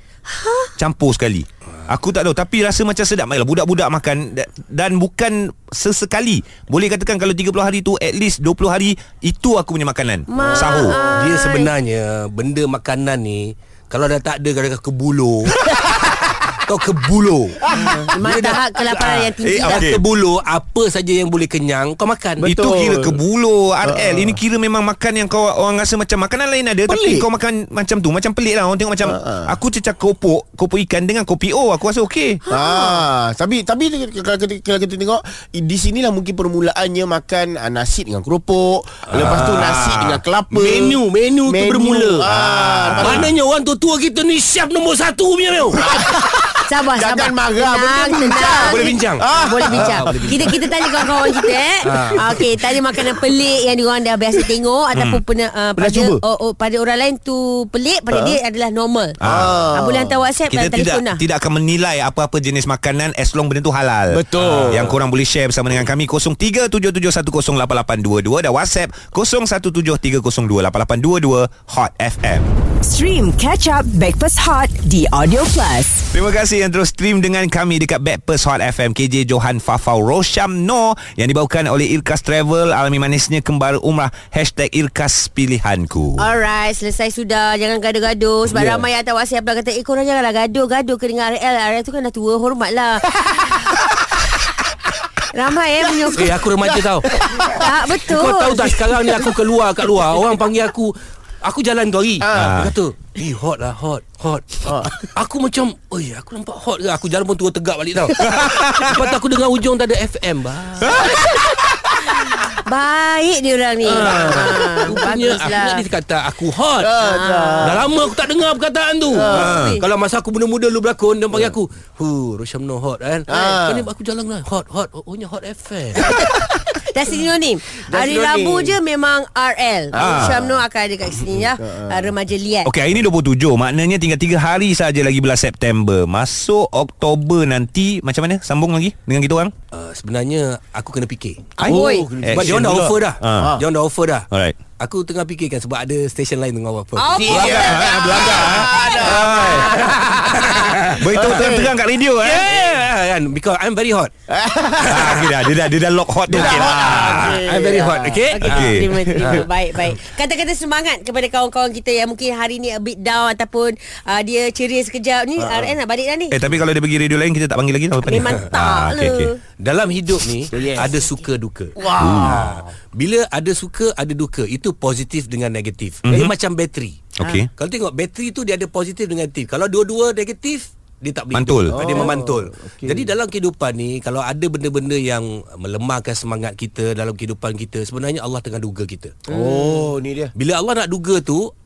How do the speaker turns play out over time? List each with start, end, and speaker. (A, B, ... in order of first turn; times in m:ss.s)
0:00.3-0:00.7 A
0:00.8-0:11.0 B
0:10.3-0:11.7 A
0:10.5-0:22.4 C
0:18.1-0:19.9 A
0:19.4-0:20.0 B
0:22.4-0:23.2 D
0:22.4-0:32.4 B
0:23.8-0:24.4 D
0:26.9-0:27.2 D
0:29.0-0:29.5 D
0:32.5-0:33.0 A
0:32.5-0:43.3 D
0:39.1-0:39.9 C
0:39.1-0:40.2 B
0:40.5-0:42.2 C
0:42.3-0:43.3 B
0:43.0-0:45.8 C
0:45.7-0:51.6 D
0:46.7-0:59.2 A
0:48.4-0:50.6 C
0:51.8-0:52.5 C
0:54.9-0:55.2 B
0:55.8-0:56.2 D
0:58.1-0:58.4 D
0:59.2-0:59.6 B
0:59.2-1:00.2 D
0:59.7-1:01.2 A
1:00.5-1:12.5 B
1:04.1-1:04.9 D
1:04.7-1:05.0 C
1:12.8-1:16.1 E
1:16.1-1:26.2 B
1:26.2-1:33.7 A
1:35.3-1:36.3 A
1:36.1-1:37.1 C
1:36.6-1:37.7 D
1:37.5-1:38.7 A
1:37.6-1:51.2 C
1:42.2-1:42.6 D
1:42.3-1:42.7 B
1:44.6-1:45.0 D
1:48.3-1:48.9 B
1:50.8-1:51.7 B
1:52.1-1:55.8 A
1:53.8-1:56.9 C
1:56.8-1:57.8 D
1:57.0-1:57.8 A
1:57.6-2:06.1 C
1:59.1-1:59.5 D
1:59.1-1:59.8 A
1:59.3-1:59.8 B
2:03.3-2:03.9 D
2:06.8-2:12.7 A
2:07.9-2:08.8 D
2:09.9-2:10.6 D
2:10.0-2:10.4 B
2:11.6-2:12.1 D
2:12.6-2:19.5 B
2:19.7-2:21.6 C
2:21.6-2:22.1 A
2:21.6-2:23.5 B
2:21.6-2:22.6 D
2:22.3-2:27.6 C
2:24.3-2:24.6 B
2:27.0-2:30.0 A
2:27.2-2:31.7 D
2:27.3-2:29.7 B
2:28.2-2:28.7 C
2:29.9-2:31.4 C
2:31.0-2:32.4 B
2:32.2-2:34.1 C
2:34.3-2:35.2 D
2:34.9-2:35.3 C
2:34.9-2:37.4 B
2:36.3-2:38.2 D
2:36.5-2:40.0 C
2:38.3-2:46.4 A
2:38.4-2:38.9 B
2:38.9-2:39.4 D
2:45.4-2:45.7 D
2:46.3-2:49.3 B
2:48.0-2:49.4 A
2:49.6-3:09.1 C
2:50.5-2:51.0 D
2:51.8-2:52.6 D
2:52.0-2:52.4 B
2:57.2-2:57.5 B
3:01.3-3:01.8 B
3:01.7-3:03.1 D
3:09.3-3:10.3 D
3:09.3-3:09.8 A
3:10.4-3:11.5 C